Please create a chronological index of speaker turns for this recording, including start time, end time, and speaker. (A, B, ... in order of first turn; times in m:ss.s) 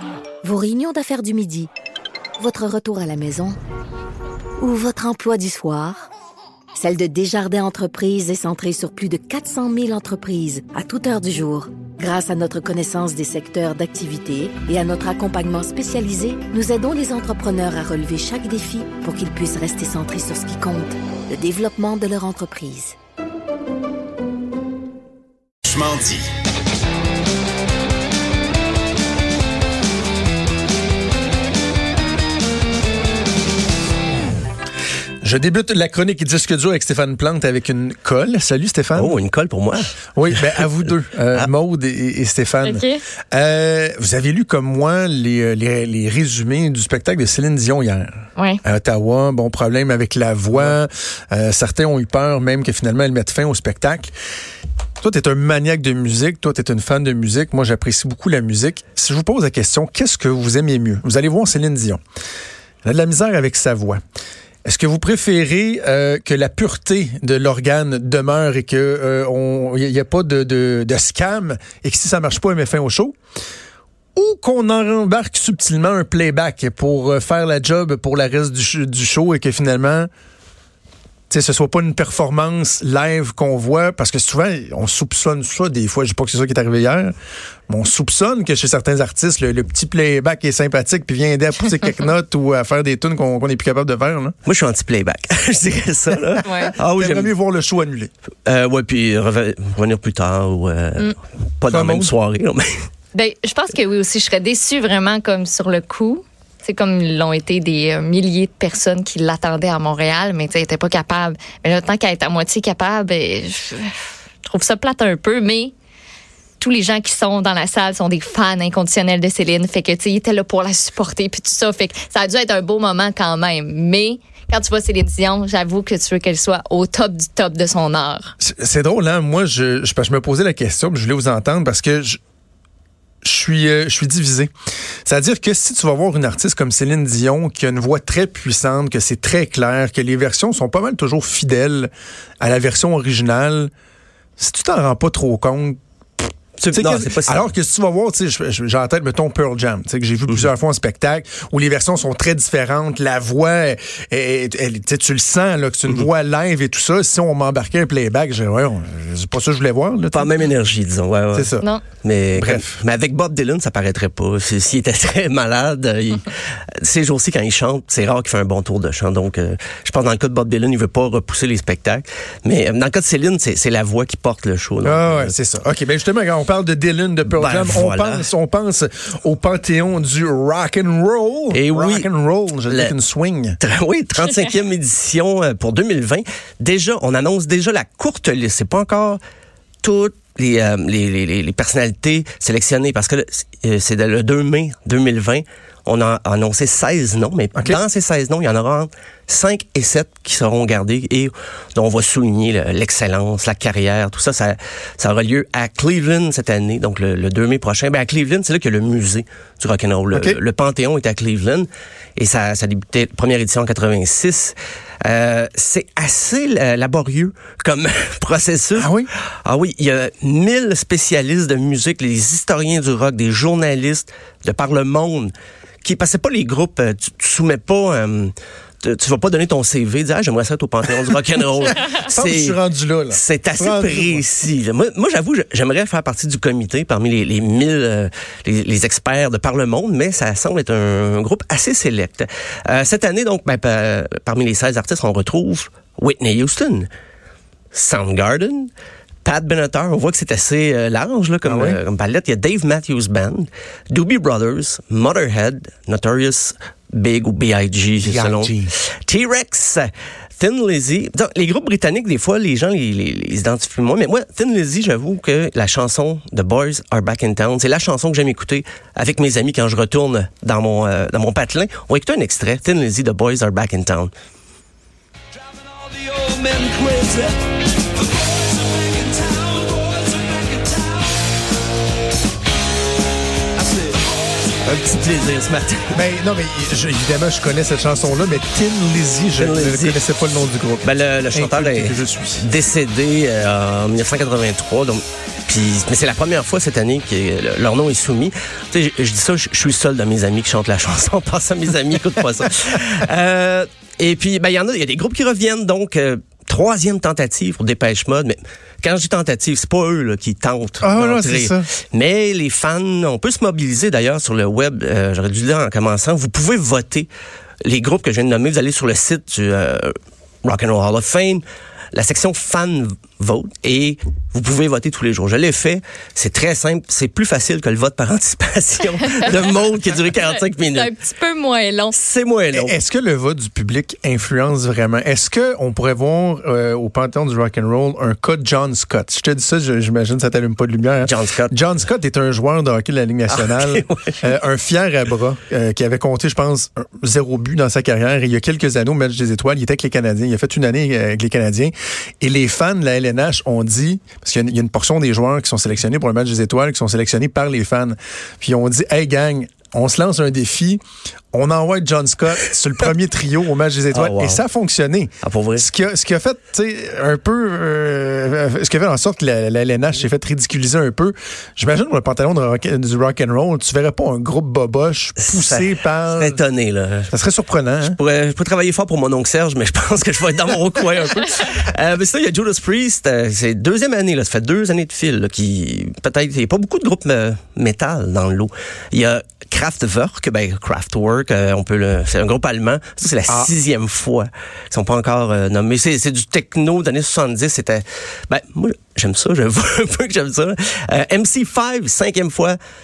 0:00.4-0:01.7 A
0:02.4-0:03.6 A
0:04.6-0:06.1 A
0:06.7-0:23.0 A
0:25.6-0:26.2 B
0:35.2-0:39.1 C
0:39.0-0:40.6 D
0:40.2-0:48.1 C
0:42.6-0:43.0 E
0:48.6-0:54.1 C
0:55.0-1:02.0 C
1:02.8-1:04.0 C
1:04.6-1:13.2 C
1:14.2-1:20.1 C
1:21.3-1:27.1 C
1:27.7-1:34.3 C
1:34.4-1:37.3 D
1:36.3-1:38.1 C
1:36.4-1:36.7 E
1:38.4-1:42.8 D
1:41.7-1:42.1 C
1:43.1-1:55.7 E
1:56.6-2:08.3 E
2:08.4-2:12.2 C
2:13.2-2:14.5 C
2:15.0-2:23.7 C
2:24.4-2:25.8 C
2:26.6-2:27.5 D
2:26.7-2:40.4 C
2:40.1-2:55.3 D
2:41.3-2:41.7 C
2:41.6-2:41.8 E
2:42.3-2:42.7 C
2:54.8-3:03.6 C
2:57.3-2:58.3 D
3:01.5-3:02.1 D
3:02.7-3:02.9 D
3:03.6-3:09.2 D
3:09.8-3:38.9 D
3:30.1-3:30.4 C
3:38.8-3:39.1 C
3:39.4-3:45.3 D
3:45.8-3:52.6 D
3:51.8-3:54.2 C
3:53.1-4:06.9 D
4:07.7-4:08.7 D
4:09.2-4:34.1 D
4:11.4-4:11.8 C
4:18.0-4:18.7 C
4:36.3-4:37.1 B
4:38.7-4:41.0 B
4:44.6-4:46.0 D
4:45.9-4:52.4 C
4:49.4-4:50.0 D
4:50.8-5:17.1 D
5:10.8-5:11.7 C
5:17.6-5:30.9 D
5:29.0-5:29.5 E
5:30.2-5:32.0 E
5:31.9-5:32.7 D
5:32.5-6:00.8 C
5:41.0-5:41.5 D
5:43.3-5:44.2 D
6:01.3-6:16.4 C
6:03.9-6:04.4 D
6:05.2-6:05.7 D
6:15.2-6:17.1 D
6:17.1-6:18.0 C
6:17.8-6:42.6 D